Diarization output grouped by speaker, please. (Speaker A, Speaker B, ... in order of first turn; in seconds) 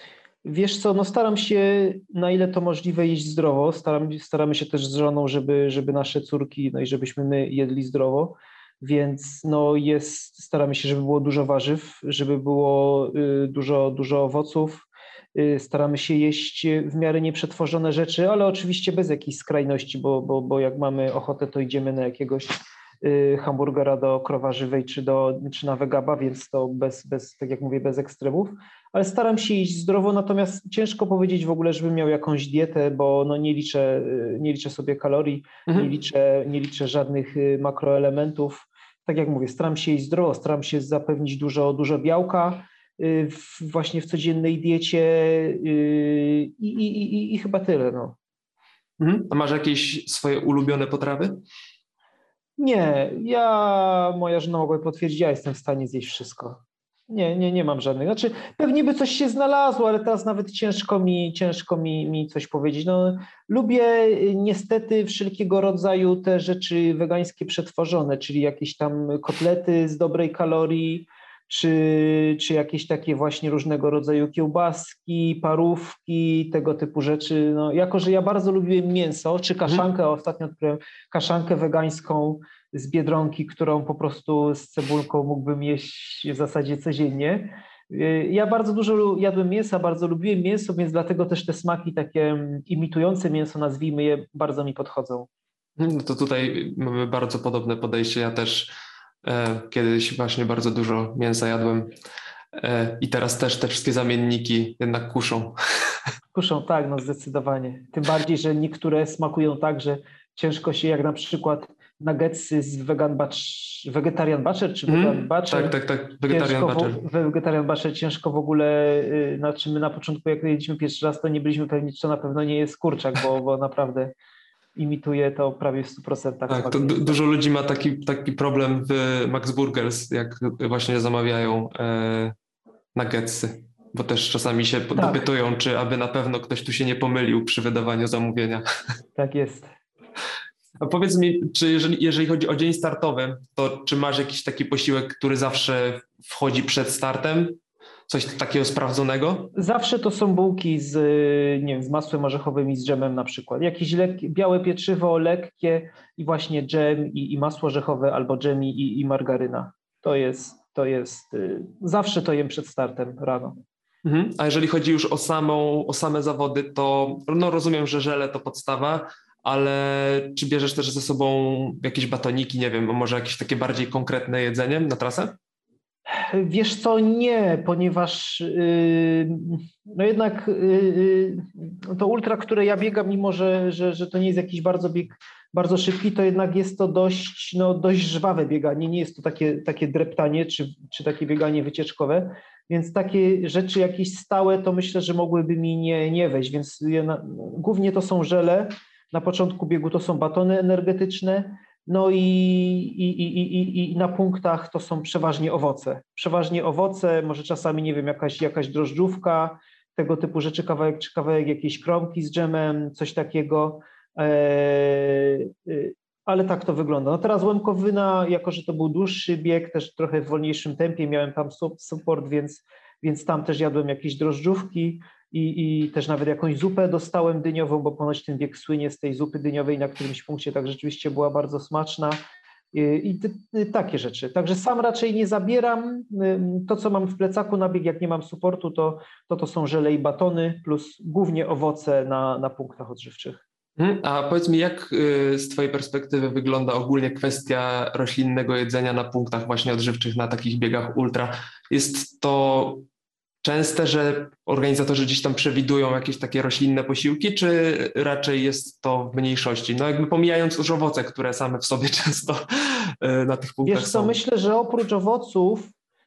Speaker A: 0.4-48.1, 52.6-95.3, 106.3-124.1, 124.8-127.2, 134.9-135.2, 139.2-139.7, 149.5-163.6, 176.1-232.2, 232.7-243.4, 263.6-265.7
Speaker B: 49.0-51.4, 95.8-98.7, 99.2-101.9, 102.5-105.5, 114.9-117.0, 126.5-132.3, 132.9-138.6, 140.8-149.5, 164.0-175.3, 243.8-252.9, 253.4-264.2